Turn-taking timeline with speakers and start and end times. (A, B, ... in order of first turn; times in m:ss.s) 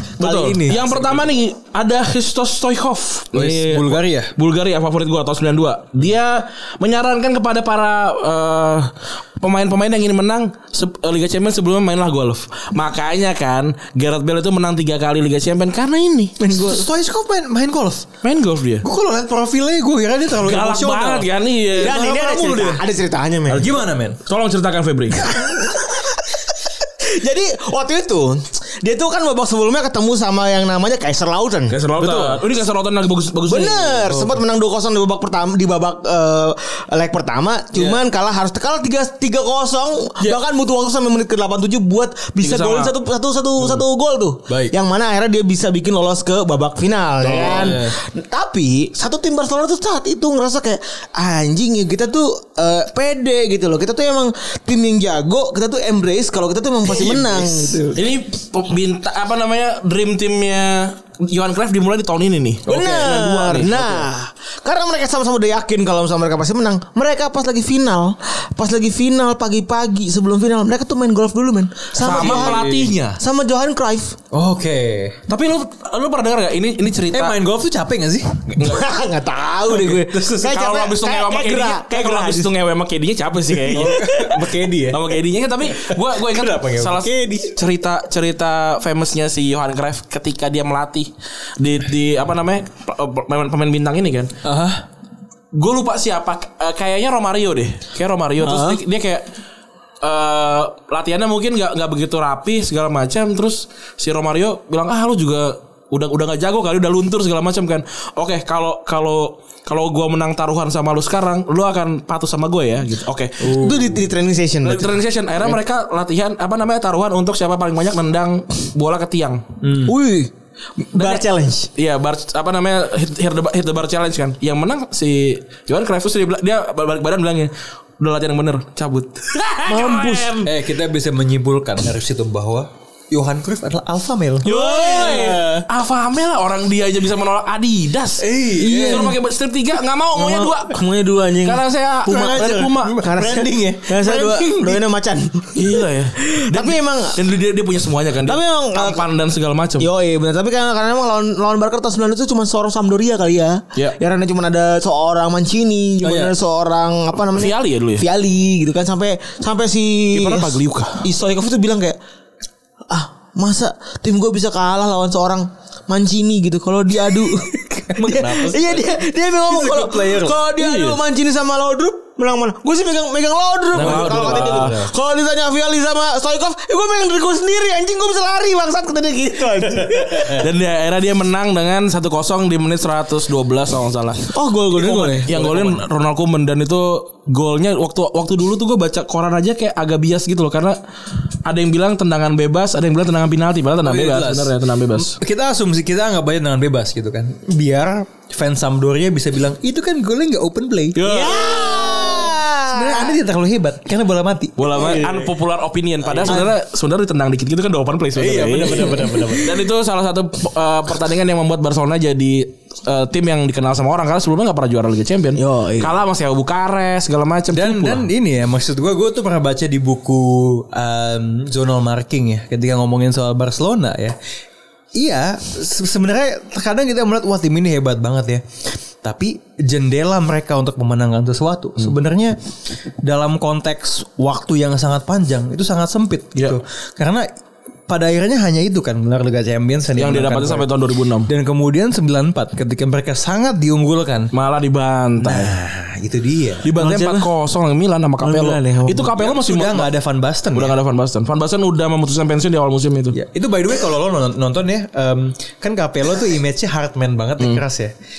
0:00.2-0:16.4 A
0:00.2-0:01.3 B
0:03.3-0:04.3 B
0:16.4-0:16.9 C
0:16.5-0:18.1 B
0:18.2-0:18.8 A
0:18.8-0:22.8 B
0:20.4-0:22.3 A
0:21.8-0:23.7 C
0:23.5-0:24.2 B
0:24.2-0:25.2 A
0:25.2-0:31.8 C
0:31.7-0:34.2 A
0:32.0-0:32.4 B
0:33.5-0:58.0 C
0:37.7-0:38.0 B
0:42.4-0:42.9 A
0:44.5-0:44.8 B
0:47.2-0:47.7 A
0:47.3-0:48.0 B
0:57.0-0:57.8 B
0:57.9-1:04.1 A
1:02.7-1:14.2 C
1:02.7-1:03.1 B
1:12.0-1:13.0 A
1:12.0-1:13.2 B
1:14.3-1:15.2 B
1:15.3-1:17.4 A
1:17.1-1:18.5 B
1:18.5-1:18.8 A
1:18.6-1:22.5 C
1:19.7-1:20.6 B
1:20.5-1:24.3 A
1:23.7-1:25.1 B
1:23.8-1:24.4 C
1:24.9-1:34.3 A
1:25.7-1:27.0 B
1:27.0-1:27.5 C
1:34.4-1:34.8 B
1:35.5-1:39.2 A
1:38.4-1:38.8 C
1:40.0-1:53.6 A
1:53.4-1:54.1 B
1:53.5-1:55.0 C
1:54.6-1:59.4 A
1:59.6-2:00.0 B
1:59.8-2:01.7 C
2:01.0-2:10.4 A
2:09.7-2:10.5 C
2:10.4-2:15.6 B
2:14.4-2:20.8 A
2:14.4-2:15.4 C
2:18.2-2:19.1 B
2:18.6-2:19.2 C
2:20.1-2:27.2 C
2:21.4-2:23.0 A
2:22.1-2:24.8 B
2:25.6-2:29.9 A
2:28.2-2:29.1 C
2:29.8-2:42.0 C
2:36.0-2:36.3 B
2:37.3-2:38.0 A
2:40.1-2:41.0 A
2:42.9-3:00.4 C
2:47.9-2:50.4 B
2:50.6-2:51.0 A
2:53.7-2:54.9 B
2:53.8-2:54.8 A
2:59.8-3:00.4 B
3:00.3-3:10.8 A
3:04.3-3:05.3 C
3:05.3-3:05.8 B
3:11.4-3:15.2 A
3:13.8-3:21.1 B
3:21.0-3:22.1 A
3:21.0-3:23.2 C
3:22.7-3:25.2 B
3:24.6-3:38.1 A
3:26.1-3:26.5 B
3:28.2-3:29.6 B
3:28.9-3:29.3 C
3:35.4-3:35.9 C
3:37.5-3:44.2 B
3:45.0-3:52.4 B
3:53.0-3:57.3 B
3:57.9-4:00.7 B
4:00.0-4:01.3 A
4:01.3-4:04.3 B
4:04.3-4:05.5 A
4:05.2-4:06.7 B
4:06.6-4:09.9 A
4:06.8-4:07.3 C
4:08.2-4:09.1 C
4:09.1-4:10.8 B
4:10.6-4:13.2 A
4:13.1-4:17.9 B